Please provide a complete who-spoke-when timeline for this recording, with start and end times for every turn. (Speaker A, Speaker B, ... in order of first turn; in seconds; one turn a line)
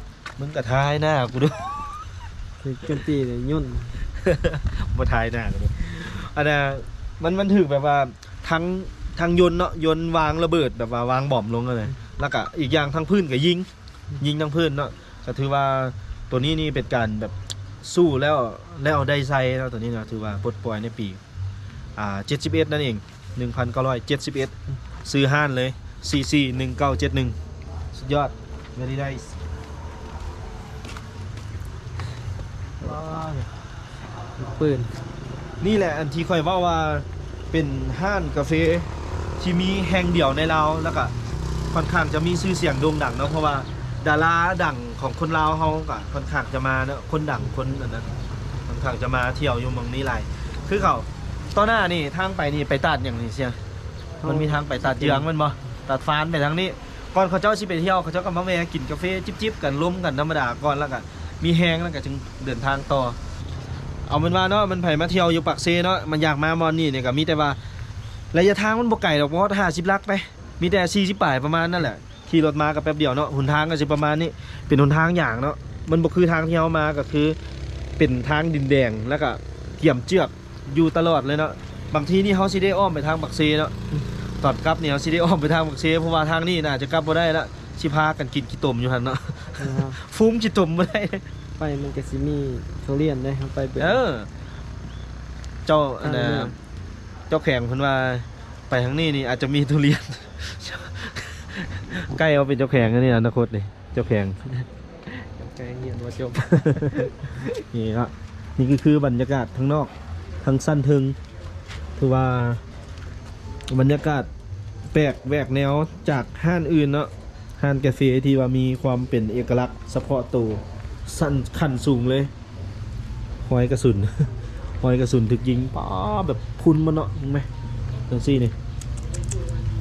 Speaker A: 0.4-2.1
Speaker B: 2.6-4.0
Speaker A: 4.2-13.7
Speaker A: 14.2-21.2
Speaker A: 22.0-27.4
Speaker A: 27.9-29.3
Speaker B: 32.8-33.5
Speaker A: 32.8-33.5
Speaker B: 34.4-34.9
Speaker A: 35.6-41.1
Speaker A: 41.7-48.1
Speaker A: 48.7-53.6
Speaker B: 54.2-55.2
Speaker A: 54.3-63.2
Speaker A: 64.1-67.6
Speaker A: 68.3-77.4
Speaker A: 78.0-83.7
Speaker A: 84.4-91.2
Speaker B: 89.6-90.0
Speaker B: 91.6-94.0
Speaker A: 93.8-94.3
Speaker A: 95.7-96.5
Speaker B: 96.0-96.5
Speaker A: 97.3-104.4
Speaker B: 104.5-107.2
Speaker A: 106.4-109.9
Speaker A: 110.4-111.2
Speaker A: 112.0-112.6
Speaker A: 113.7-114.3
Speaker A: 114.9-122.3
Speaker A: 123.5-127.5
Speaker A: 128.1-128.5